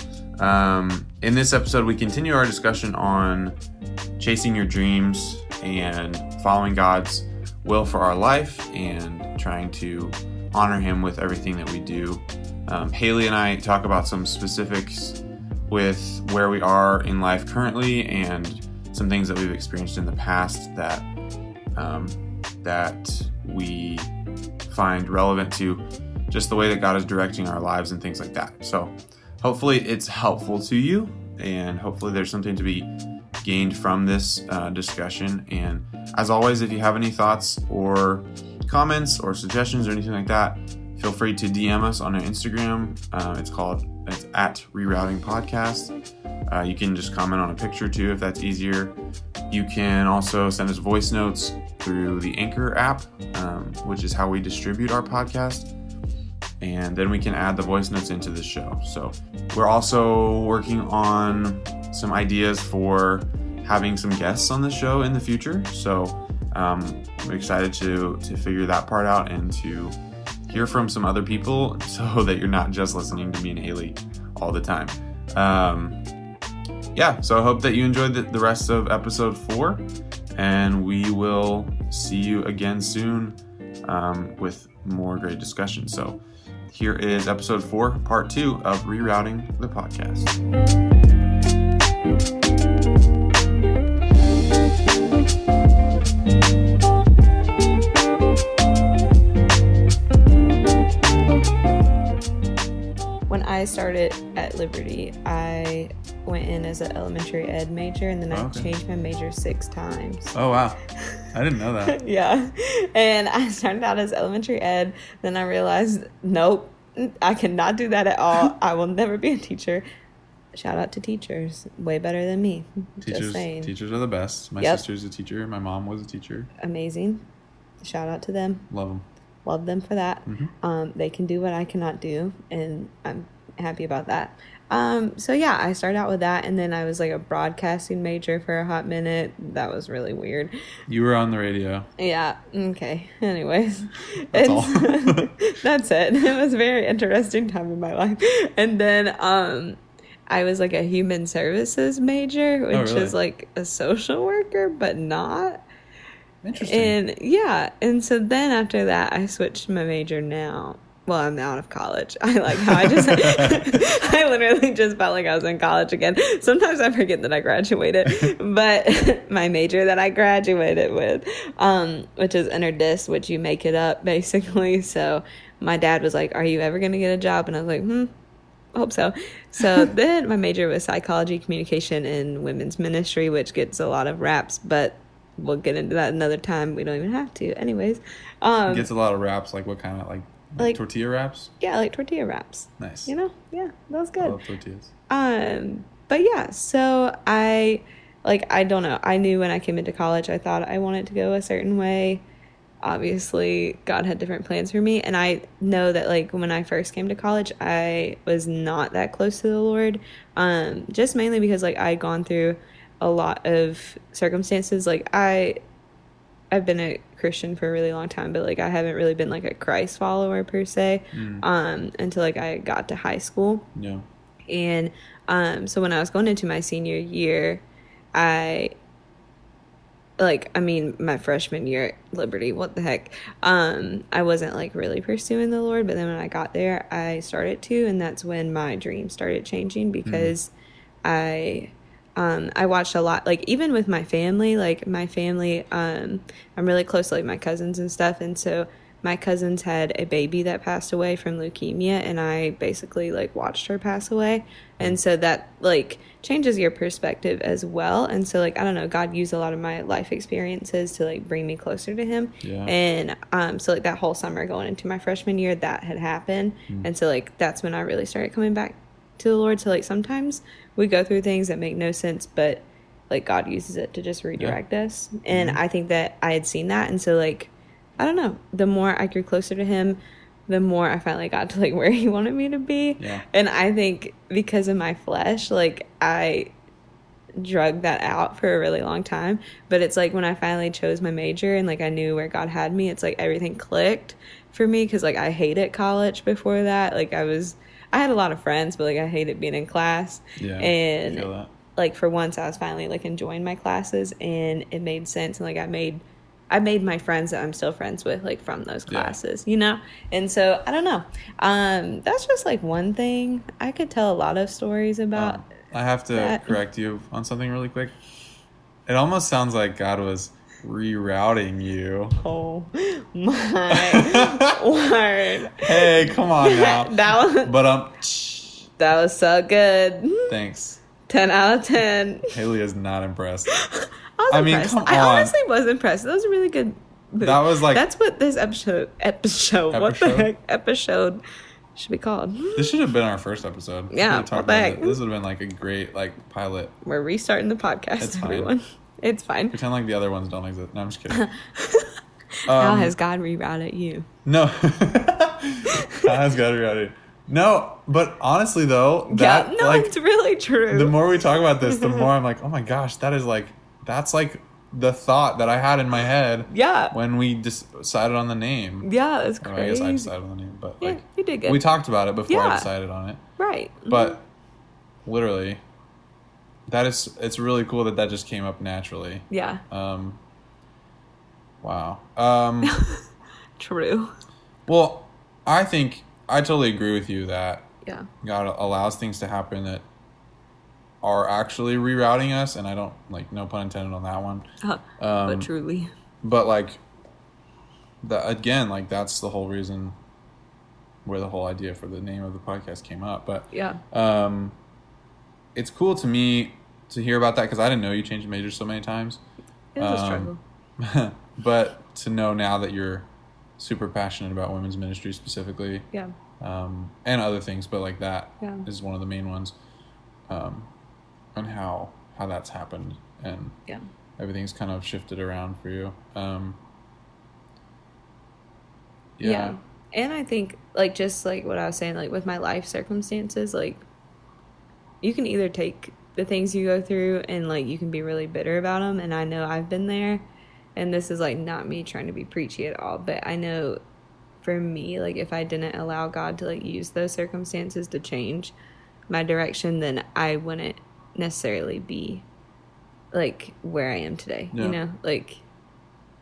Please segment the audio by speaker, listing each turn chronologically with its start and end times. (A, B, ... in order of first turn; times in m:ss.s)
0:00.4-0:03.5 A
0:04.2-0:15.2 A
0:15.7-0:21.0 A
0:21.8-0:24.1 A
0:24.7-0:32.9 A
0:33.4-0:45.9 A
0:46.5-0:48.9 A
0:49.5-0:55.7 A
0:56.6-1:09.9 A
1:10.5-1:16.0 A
1:16.9-1:19.8 A
1:20.4-1:26.2 A
1:26.7-1:30.3 A
1:43.3-1:50.3 B
1:48.3-1:48.7 C
1:50.3-1:52.0 C
1:51.8-1:59.8 B
2:00.5-2:03.7 B
2:03.0-2:06.5 C
2:06.6-2:07.2 B
2:07.8-2:08.6 B
2:08.7-2:09.0 C
2:09.4-2:20.5 B
2:10.2-2:10.5 C
2:20.9-2:21.9 C
2:22.0-2:35.6 B
2:24.3-2:25.3 C
2:32.7-2:33.1 C
2:36.4-2:37.0 C
2:36.6-2:58.1 B
2:42.6-2:43.8 C
2:48.0-2:48.3 C
2:58.7-3:08.9 B
3:08.7-3:11.5 C
3:11.6-3:14.4 B
3:12.8-3:13.1 C
3:14.2-3:14.9 C
3:15.1-3:22.2 B
3:22.8-3:35.6 B
3:36.5-3:43.7 B
3:41.1-3:41.4 C
3:43.7-3:44.0 C
3:44.5-3:47.6 B
3:48.1-3:48.7 B
3:50.2-4:00.5 B
4:00.0-4:00.3 C
4:01.0-4:46.5 B
4:22.4-4:22.7 C
4:35.3-4:35.6 C
4:43.0-4:43.2 C
4:47.4-5:15.5 B
5:00.4-5:01.5 C
5:08.9-5:09.2 C
5:15.1-5:18.0 C
5:16.1-5:16.6 B
5:18.9-5:22.2 C
5:22.2-5:27.5 B
5:23.7-5:24.6 C
5:25.5-5:28.7 C
5:28.8-5:30.3 B
5:30.3-5:30.8 C
5:31.1-5:32.3 B
5:32.3-5:33.5 C
5:33.5-5:41.2 B
5:34.3-5:35.3 C
5:37.2-5:37.9 C
5:39.7-5:40.3 C
5:41.7-5:42.7 B
5:42.6-5:46.7 C
5:43.9-5:45.0 B
5:46.8-5:49.6 B
5:48.0-5:48.5 C
5:49.5-5:51.3 C
5:51.1-5:51.9 B
5:52.5-5:52.9 C
5:52.5-5:54.1 B
5:54.2-5:59.9 C
5:55.6-5:56.1 B
5:59.1-6:01.0 B
6:00.7-6:08.9 C
6:01.6-6:02.1 B
6:06.5-6:06.9 B
6:08.8-6:10.1 B
6:09.4-6:13.2 C
6:10.8-6:11.6 B
6:12.3-6:12.7 B
6:13.4-6:14.1 B
6:13.9-6:14.2 C
6:15.0-6:15.6 C
6:16.7-6:20.2 C
6:19.3-6:19.6 B
6:21.6-6:22.8 C
6:22.6-6:23.0 B
6:23.6-6:24.1 B
6:24.7-6:29.8 C
6:31.0-6:34.4 C
6:34.6-6:35.9 B
6:35.0-6:35.5 C
6:36.2-6:36.8 C
6:38.0-6:40.0 C
6:41.0-6:44.6 C
6:43.5-6:43.8 B
6:45.5-6:49.2 C
6:49.7-6:50.4 B
6:49.8-6:55.9 C
6:56.4-6:59.5 C
7:00.3-7:00.7 C
7:01.3-7:03.6 C
7:04.2-7:06.6 C
7:09.2-7:09.6 C
7:09.2-7:13.8 B
7:15.0-7:20.2 B
7:20.8-7:23.8 B
7:24.4-7:28.5 B
7:29.1-7:32.2 B
7:33.1-7:35.4 B
7:34.5-7:34.8 C